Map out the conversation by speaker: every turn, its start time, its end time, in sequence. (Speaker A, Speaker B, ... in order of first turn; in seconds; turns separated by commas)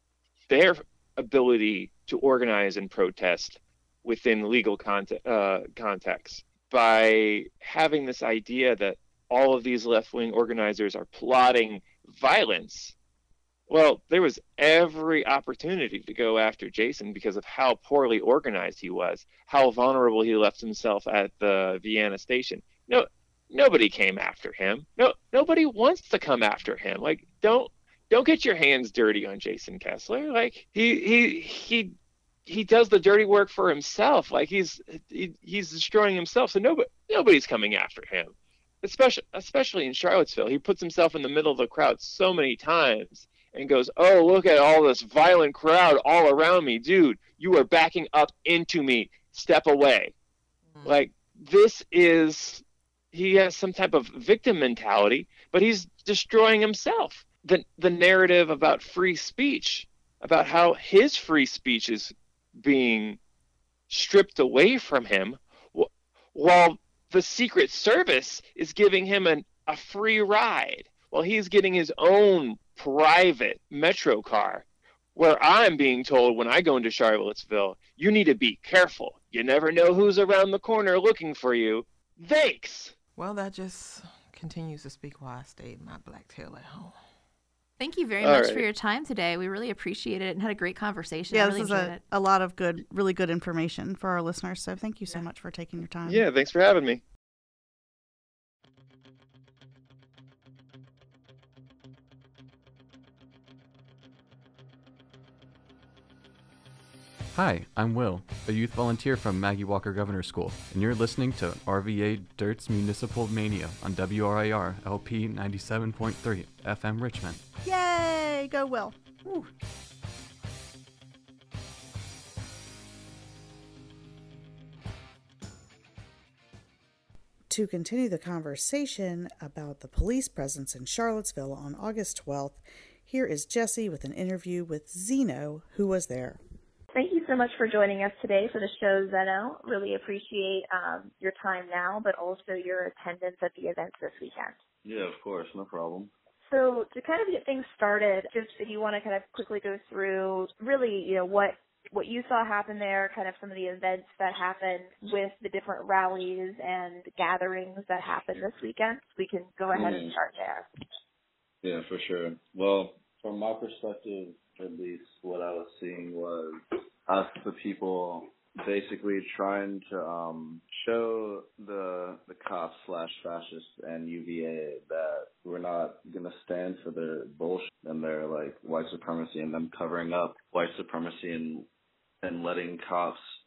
Speaker A: 0.5-12.9, Speaker A: 13.7-31.9, Speaker A: 32.5-50.1, Speaker B: 50.7-51.0, Speaker A: 50.8-63.2, Speaker A: 63.9-82.9, Speaker B: 83.2-87.0, Speaker C: 87.8-92.0, Speaker A: 88.2-88.7, Speaker D: 91.3-96.2, Speaker A: 96.0-97.0, Speaker E: 107.3-117.4, Speaker D: 117.6-119.5, Speaker D: 127.5-136.4, Speaker F: 136.9-144.6, Speaker G: 144.8-146.1, Speaker F: 146.5-160.7, Speaker G: 159.7-160.1, Speaker G: 161.6-181.7, Speaker G: 182.2-183.2